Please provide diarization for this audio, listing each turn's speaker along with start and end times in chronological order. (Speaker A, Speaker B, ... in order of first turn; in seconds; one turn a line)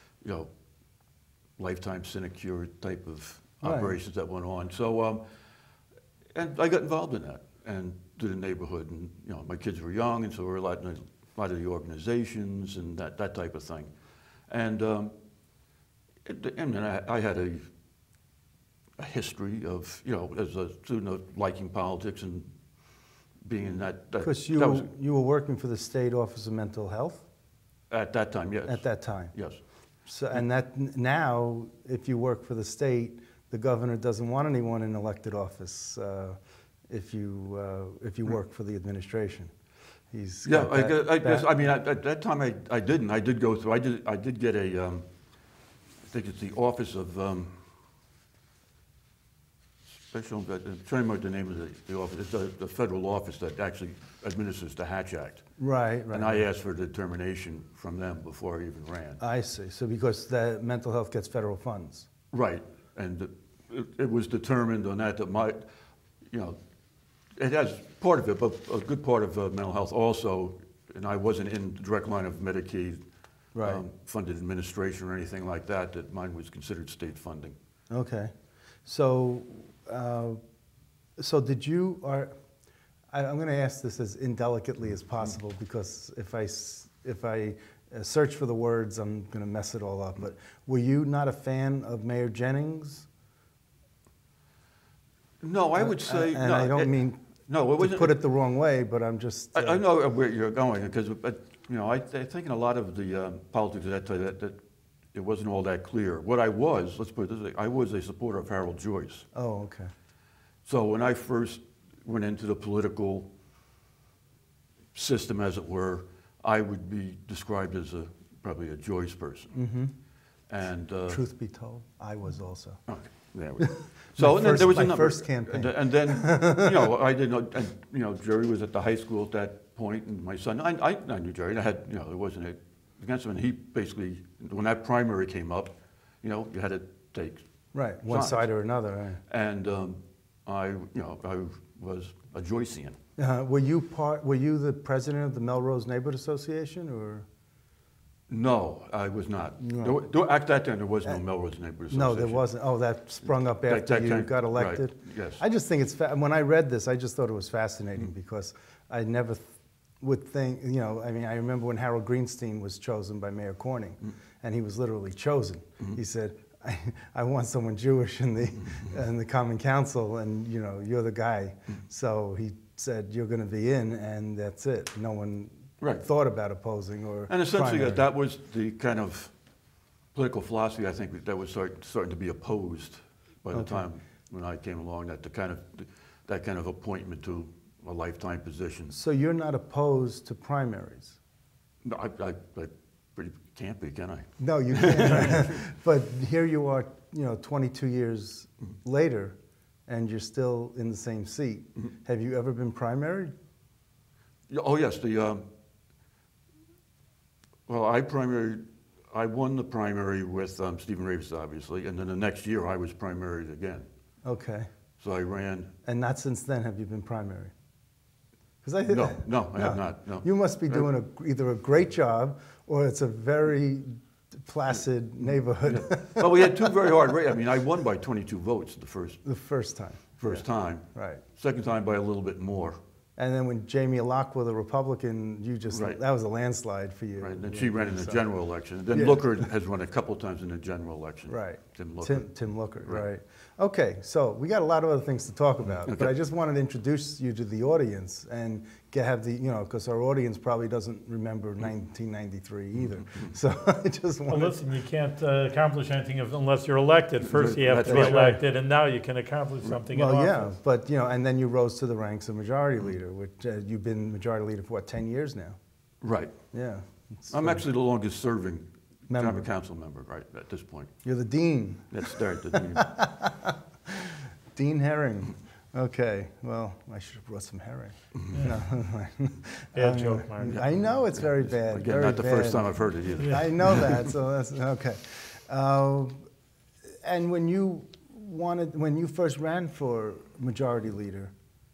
Speaker A: 0.2-0.5
Speaker A: 1.6-5.2
Speaker B: 3.6-4.0
Speaker A: 6.3-13.9
Speaker A: 14.5-15.1
Speaker A: 16.2-17.6
Speaker A: 19.0-22.5
Speaker A: 23.4-24.9
Speaker B: 24.2-27.2
Speaker A: 27.9-29.6
Speaker B: 28.7-29.3
Speaker B: 30.1-36.4
Speaker B: 36.9-39.5
Speaker B: 40.1-41.6
Speaker A: 40.4-45.0
Speaker A: 46.1-47.5
Speaker A: 50.1-55.4
Speaker B: 55.6-56.4
Speaker A: 56.1-59.2
Speaker B: 59.2-62.1
Speaker A: 62.3-65.6
Speaker A: 66.3-66.6
Speaker A: 67.4-73.0
Speaker B: 73.5-73.8
Speaker A: 73.6-77.5
Speaker B: 77.9-78.3
Speaker B: 78.8-80.4
Speaker B: 81.2-82.3
Speaker B: 83.1-93.1
Speaker A: 95.4-96.9
Speaker B: 95.8-97.2
Speaker A: 97.5-98.1
Speaker B: 97.8-99.8
Speaker A: 99.5-104.6
Speaker A: 105.1-109.3
Speaker B: 109.3-109.9
Speaker A: 110.6-113.3
Speaker A: 114.9-119.5
Speaker B: 119.5-119.9
Speaker A: 120.5-121.2
Speaker B: 121.1-122.8
Speaker A: 122.9-137.4
Speaker B: 123.6-126.9
Speaker B: 137.7-139.2
Speaker A: 138.1-138.5
Speaker A: 139.3-143.0
Speaker B: 143.2-147.2
Speaker A: 148.3-152.4
Speaker B: 149.6-150.0
Speaker B: 151.9-178.1
Speaker A: 153.4-155.4
Speaker A: 177.3-179.3
Speaker A: 180.1-189.0
Speaker B: 183.5-183.8
Speaker B: 188.9-191.2
Speaker A: 191.8-195.4
Speaker B: 194.4-199.3
Speaker B: 199.9-203.3
Speaker A: 204.5-205.4
Speaker A: 207.7-213.9
Speaker B: 214.2-214.7
Speaker A: 215.0-215.7
Speaker B: 215.8-217.5
Speaker B: 218.6-226.7
Speaker A: 218.9-220.8
Speaker A: 225.7-229.2
Speaker B: 229.2-231.2
Speaker A: 230.2-232.8
Speaker B: 233.2-238.2
Speaker A: 235.7-236.0
Speaker A: 237.2-242.3
Speaker B: 238.9-239.4
Speaker B: 241.3-254.6
Speaker C: 254.3-260.5
Speaker A: 257.2-258.4
Speaker B: 257.9-258.2
Speaker B: 259.9-265.6
Speaker A: 266.0-266.4
Speaker B: 266.5-267.6
Speaker A: 267.3-270.9
Speaker B: 269.1-269.5
Speaker B: 271.0-286.2
Speaker A: 271.9-272.9
Speaker C: 278.3-278.6
Speaker C: 279.7-280.6
Speaker A: 281.1-284.0
Speaker C: 283.2-283.4
Speaker B: 287.0-291.3